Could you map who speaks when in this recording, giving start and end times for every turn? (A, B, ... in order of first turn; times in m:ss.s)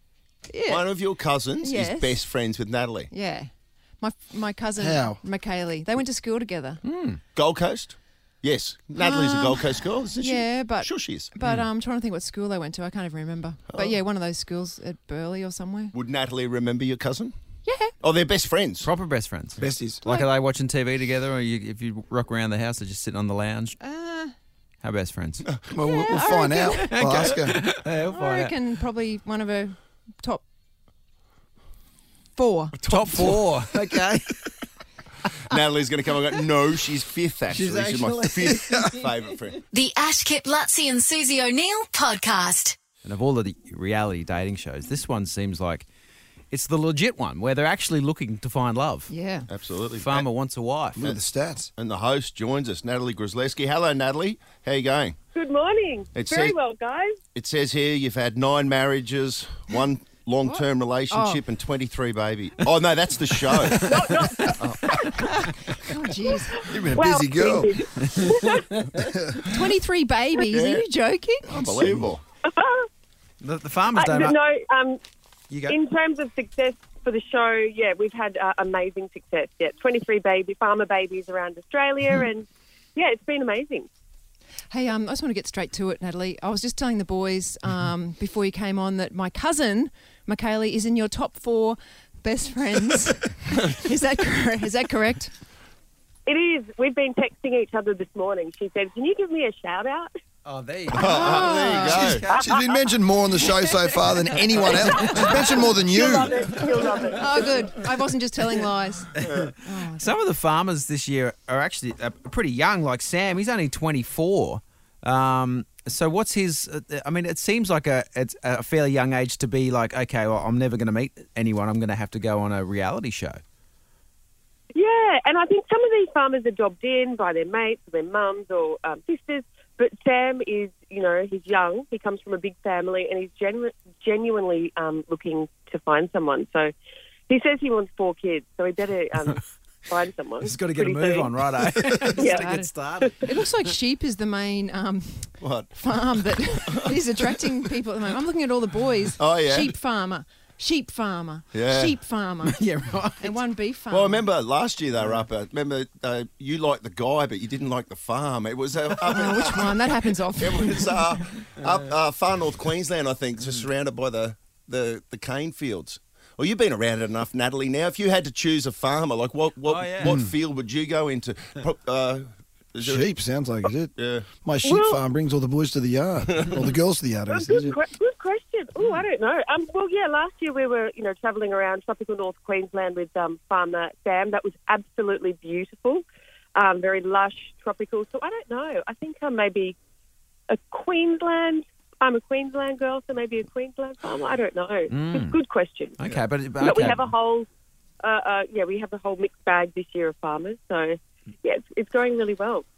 0:00.5-0:00.9 A
0:00.7-0:03.1 B
0:01.6-0:02.2 A
0:03.1-0:03.5 A
0:04.0-0:06.8 A
0:04.8-0:05.2 C
0:06.8-0:07.2 D
0:07.4-0:11.3 B
0:09.0-0:15.9 A
0:13.7-0:14.0 B
0:15.9-0:17.3 B
0:17.6-0:17.9 A
0:18.0-0:18.9 B
0:18.8-0:23.8 D
0:19.6-0:20.1 C
0:23.8-0:24.3 A
0:24.8-0:25.5 D
0:25.7-0:27.6 C
0:25.8-0:26.9 A
0:26.9-0:28.5 D
0:28.1-0:30.4 A
0:32.4-0:32.8 A
0:32.8-0:33.2 B
0:32.9-0:34.5 D
0:35.5-0:39.6 B
0:37.5-0:39.1 D
0:39.7-0:42.8 E
0:43.0-0:45.9 D
0:46.5-0:49.1 D
0:49.1-0:49.5 A
0:49.5-0:50.2 B
0:50.0-0:51.0 D
0:51.0-0:51.7 C
0:51.8-0:55.2 B
0:55.3-0:57.2 F
0:56.1-0:56.6 B
0:57.3-1:05.3 B
1:00.4-1:01.4 A
1:03.8-1:05.1 F
1:05.2-1:06.6 A
1:06.5-1:08.8 F
1:06.6-1:08.2 C
1:09.0-1:09.4 C
1:09.4-1:11.5 A
1:10.4-1:10.8 B
1:11.5-1:12.1 C
1:11.5-1:12.2 B
1:12.4-1:12.9 F
1:13.4-1:14.4 D
1:14.0-1:15.0 F
1:15.5-1:15.8 D
1:15.6-1:23.9 F
1:24.7-1:35.3 A
1:36.3-1:40.1 F
1:40.4-1:42.4 D
1:40.9-1:42.3 B
1:40.9-1:42.2 A
1:42.1-1:46.7 C
1:42.3-1:42.7 F
1:44.3-1:45.4 D
1:44.6-1:47.5 F
1:47.1-1:50.2 A
1:49.2-2:03.4 D
1:49.2-1:49.5 B
2:04.7-2:16.7 F
2:17.3-2:21.3 F
2:20.4-2:23.3 D
2:22.2-2:23.3 F
2:22.2-2:32.6 A
2:25.4-2:25.7 B
2:26.5-2:26.9 B
2:29.2-2:29.7 B
2:31.5-2:32.0 B
2:32.4-2:33.4 D
2:33.2-2:34.2 A
2:33.9-2:53.1 B
2:39.0-2:41.3 A
2:49.6-2:50.2 D
2:50.0-2:50.3 C
2:52.8-2:57.8 C
2:54.0-2:54.3 B
2:54.6-2:55.0 F
2:56.3-2:56.7 B
2:57.3-3:06.0 F
3:06.6-3:09.8 F
3:10.5-3:16.0 F
3:14.9-3:15.4 D
3:16.0-3:17.1 D
3:16.6-3:17.5 F
3:18.0-3:22.6 F